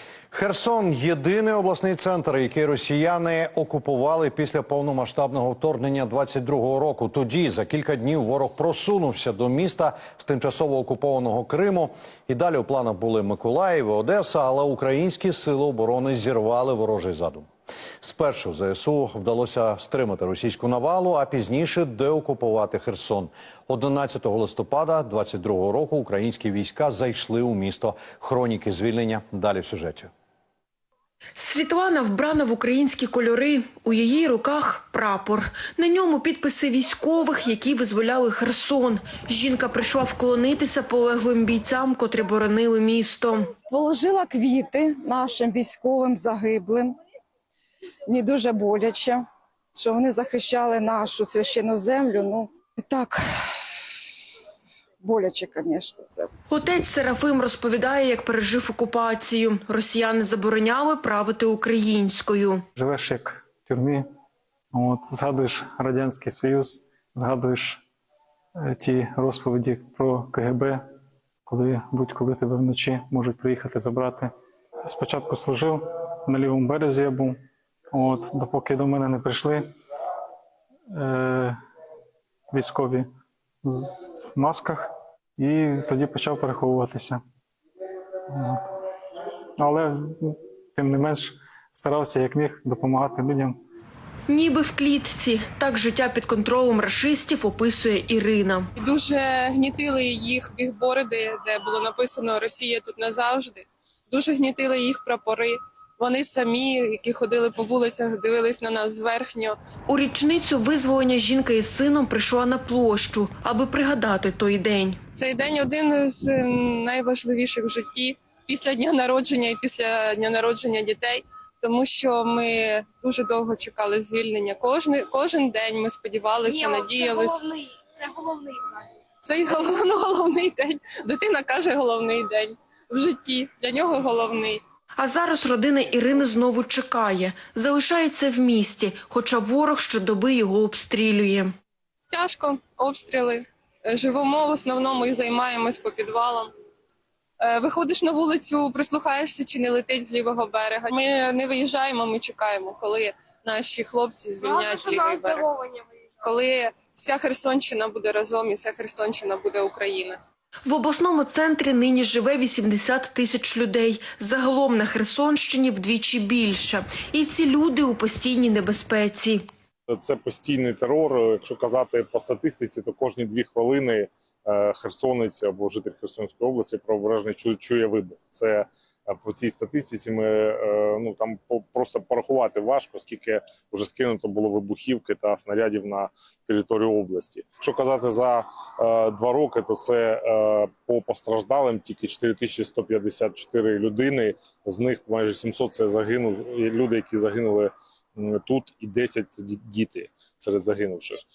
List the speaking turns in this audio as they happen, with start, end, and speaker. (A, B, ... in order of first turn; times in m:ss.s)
0:00.3-0:17.5 A
0:18.0-0:30.1 A
0:31.4-0:43.5 B
0:43.7-0:47.0 C
0:48.1-0:53.2 C
0:55.0-0:56.3 C
0:56.5-1:02.6 B
1:02.7-1:04.1 D
1:04.7-1:07.8 D
1:08.6-1:10.8 D
1:11.5-1:14.3 D
1:14.8-1:17.4 D
1:17.9-1:19.7 D
1:20.9-1:21.6 D
1:22.5-1:23.1 D
1:23.6-1:27.2 D
1:28.3-1:28.7 D
1:29.6-1:33.6 D
1:34.3-1:38.7 B
1:38.8-1:49.6 E
1:49.9-1:55.0 B
1:55.1-2:07.4 E
2:06.5-2:08.8 F
2:09.2-2:14.6 E
2:15.0-2:21.5 B
2:22.1-2:26.5 E
2:27.4-2:35.4 E
2:34.4-2:35.8 F
2:36.2-2:40.2 E
2:40.6-2:49.4 B
2:49.9-3:21.2 G